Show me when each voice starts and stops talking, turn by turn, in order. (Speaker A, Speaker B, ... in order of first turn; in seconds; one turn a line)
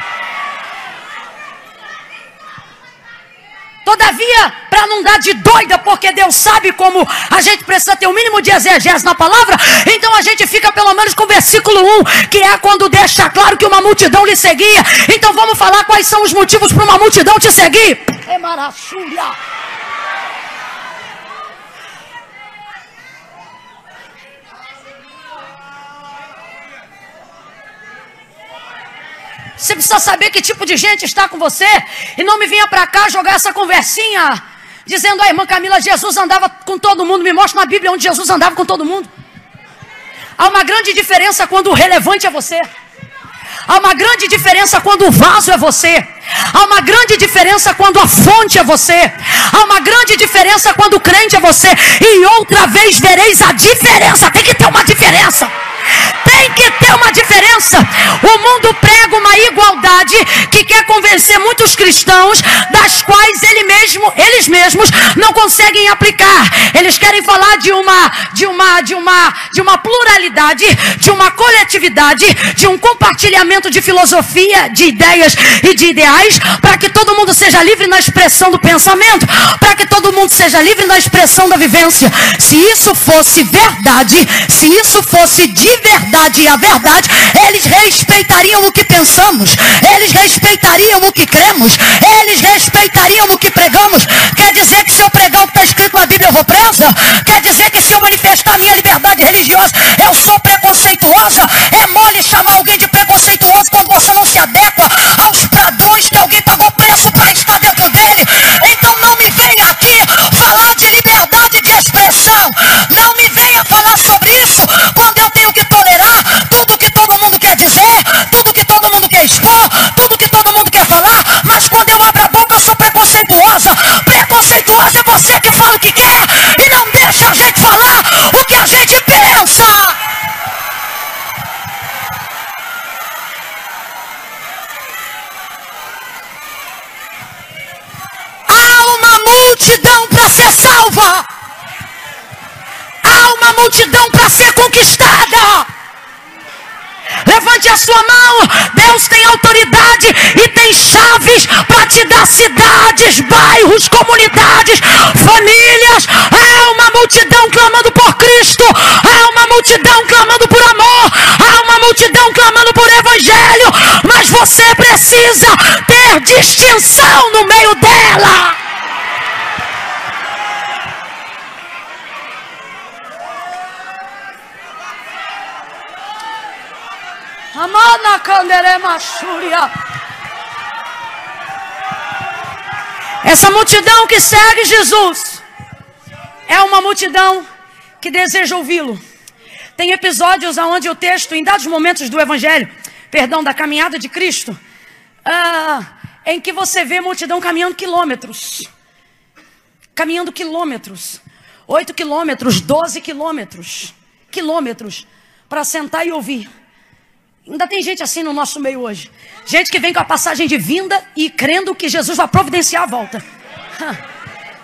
Speaker A: 3.8-19.4
Speaker A: 29.6-39.1
Speaker A: 40.4-42.7
Speaker A: 43.7-130.0
Speaker A: 138.5-141.3
Speaker A: 143.0-145.7
Speaker A: 147.2-168.6
Speaker A: 177.5-179.7
Speaker A: 183.2-185.4
Speaker A: 186.5-187.5
Speaker A: 188.0-189.0
Speaker A: 189.8-194.6
Speaker A: 195.2-198.7
Speaker A: 199.9-206.5
Speaker A: 207.5-213.2